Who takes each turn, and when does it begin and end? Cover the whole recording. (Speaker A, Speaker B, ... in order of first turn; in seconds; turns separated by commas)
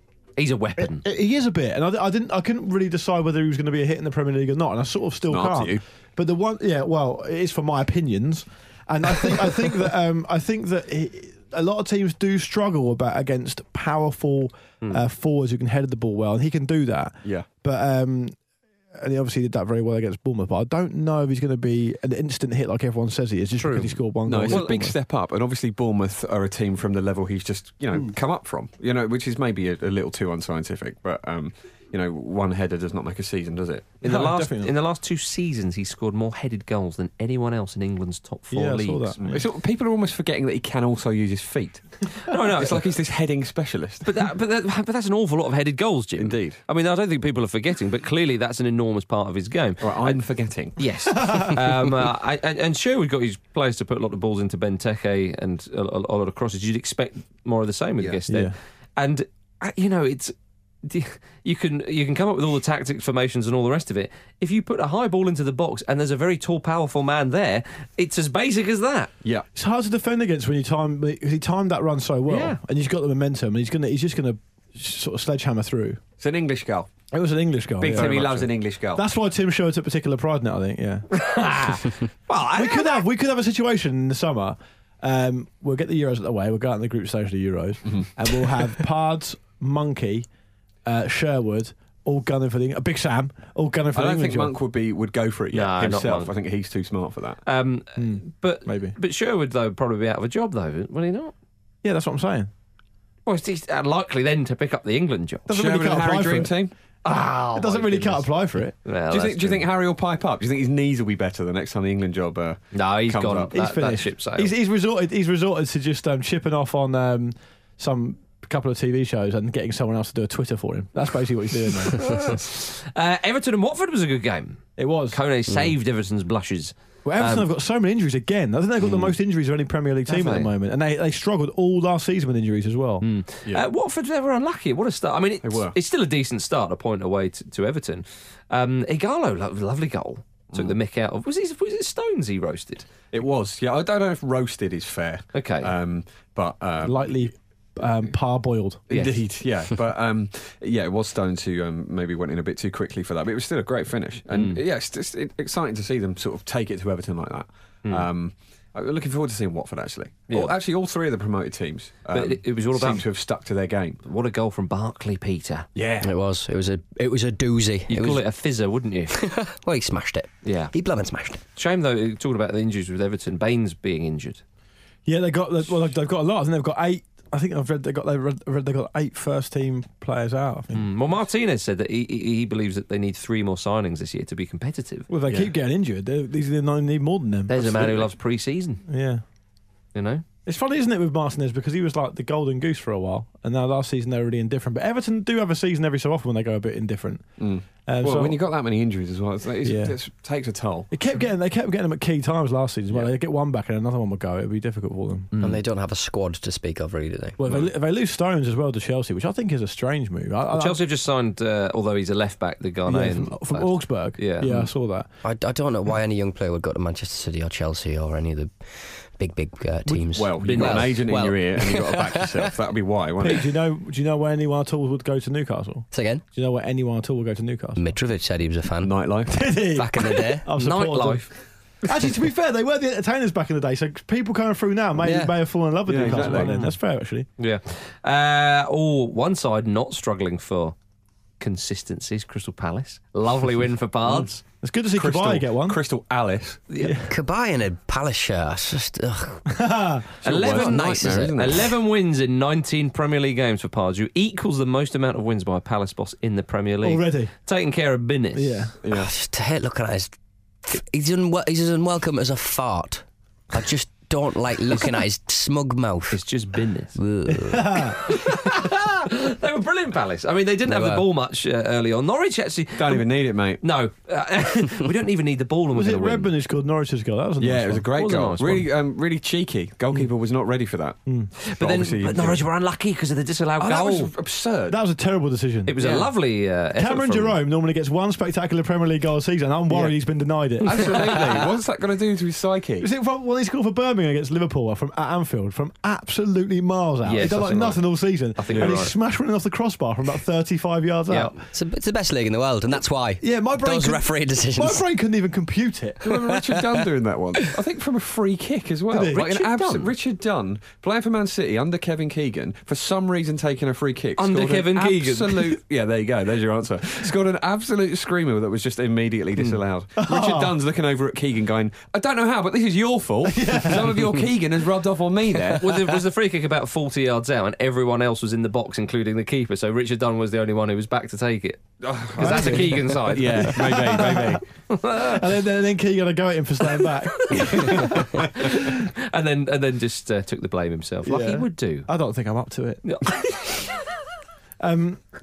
Speaker A: 0.4-1.0, Speaker B: 0.9-18.3, Speaker C: 5.3-5.8, Speaker B: 18.9-24.9, Speaker A: 23.6-24.7, Speaker C: 24.2-34.0, Speaker A: 34.0-39.2, Speaker B: 34.0-34.7, Speaker B: 38.5-39.4, Speaker C: 39.2-41.8, Speaker A: 42.2-42.9, Speaker C: 42.5-44.1, Speaker A: 44.0-50.2, Speaker C: 46.2-46.6, Speaker C: 49.8-50.8, Speaker A: 50.8-69.1, Speaker B: 58.3-58.5, Speaker B: 69.5-76.0, Speaker A: 72.3-72.6, Speaker C: 76.2-76.9, Speaker B: 77.1-81.8, Speaker C: 77.8-79.0, Speaker A: 77.9-78.3, Speaker A: 81.2-83.0, Speaker B: 82.5-90.3, Speaker B: 90.8-94.5, Speaker C: 93.9-97.4, Speaker A: 95.5-96.3, Speaker A: 97.5-101.3, Speaker B: 98.0-98.9, Speaker B: 101.8-102.5, Speaker A: 103.2-105.5, Speaker B: 105.5-106.5, Speaker C: 105.5-106.7, Speaker A: 107.0-108.3, Speaker B: 107.5-108.7, Speaker A: 108.8-109.7, Speaker C: 109.1-113.5, Speaker A: 112.7-114.5, Speaker B: 113.5-122.0, Speaker A: 121.9-127.5, Speaker B: 124.8-125.2, Speaker B: 127.0-133.0, Speaker A: 130.1-130.5, Speaker A: 133.0-142.9, Speaker C: 135.4-135.7, Speaker C: 143.1-147.1, Speaker A: 145.3-145.7, Speaker B: 146.8-149.0, Speaker C: 148.9-164.0, Speaker A: 148.9-149.2, Speaker A: 154.3-154.6, Speaker A: 160.3-160.5, Speaker A: 162.1-163.0, Speaker A: 164.0-165.7, Speaker C: 165.7-166.1, Speaker D: 166.0-168.2, Speaker A: 167.9-169.2, Speaker D: 169.1-171.4, Speaker A: 170.4-170.7, Speaker A: 171.6-174.4, Speaker B: 175.1-180.8, Speaker A: 180.7-185.1, Speaker B: 185.1-188.1, Speaker A: 187.5-188.8, Speaker B: 188.9-189.2, Speaker A: 189.9-190.2, Speaker B: 190.4-197.3, Speaker C: 197.4-200.9, Speaker B: 197.8-198.4, Speaker B: 199.6-199.9, Speaker B: 200.9-205.3, Speaker A: 205.3-205.6, Speaker D: 205.4-207.4, Speaker B: 207.4-210.8, Speaker A: 210.5-214.5, Speaker B: 212.8-215.1, Speaker D: 214.4-214.7, Speaker D: 215.2-222.5, Speaker C: 220.0-223.5, Speaker A: 220.4-221.1, Speaker B: 223.2-227.8, Speaker D: 225.9-226.2, Speaker D: 227.8-228.9, Speaker C: 228.8-229.5, Speaker B: 229.3-231.2, Speaker D: 229.7-230.5, Speaker A: 230.6-231.3, Speaker B: 231.8-237.3, Speaker D: 235.0-235.3, Speaker C: 235.9-236.6, Speaker D: 236.0-236.4, Speaker A: 237.4-240.8, Speaker A: 241.4-244.4, Speaker B: 244.6-245.8, Speaker C: 244.9-246.6, Speaker A: 246.7-247.0, Speaker B: 246.8-247.1, Speaker D: 247.1-249.4, Speaker B: 249.5-250.2, Speaker C: 250.2-251.7, Speaker A: 250.2-258.7, Speaker D: 250.3-251.5, Speaker B: 256.8-257.3, Speaker B: 258.3-258.7, Speaker C: 258.8-259.1, Speaker D: 258.9-260.1, Speaker D: 260.6-266.2, Speaker A: 264.7-265.0, Speaker A: 266.1-266.9, Speaker D: 266.9-267.9, Speaker B: 267.4-268.0, Speaker A: 268.0-273.1, Speaker C: 272.8-273.6, Speaker A: 273.6-276.3, Speaker B: 275.7-277.9, Speaker C: 277.4-281.0, Speaker A: 277.9-278.7, Speaker A: 281.4-284.1, Speaker C: 281.6-282.4, Speaker C: 283.6-284.8, Speaker B: 284.7-286.1, Speaker A: 285.7-287.4, Speaker B: 286.8-291.4, Speaker C: 290.6-292.9, Speaker A: 290.7-291.4, Speaker B: 292.8-301.3, Speaker A: 297.0-298.9, Speaker C: 298.5-298.8, Speaker D: 301.5-304.8, Speaker B: 303.2-306.0, Speaker C: 306.0-325.6, Speaker D: 306.1-306.8, Speaker B: 308.9-309.2, Speaker A: 309.1-309.9, Speaker A: 314.2-315.6, Speaker B: 320.0-320.5, Speaker B: 323.3-323.9, Speaker A: 325.6-333.8, Speaker C: 331.8-334.4, Speaker B: 332.2-334.4, Speaker A: 334.7-335.4, Speaker B: 335.0-338.7, Speaker A: 336.8-341.9, Speaker B: 341.0-342.8, Speaker A: 342.8-343.7, Speaker B: 344.6-345.0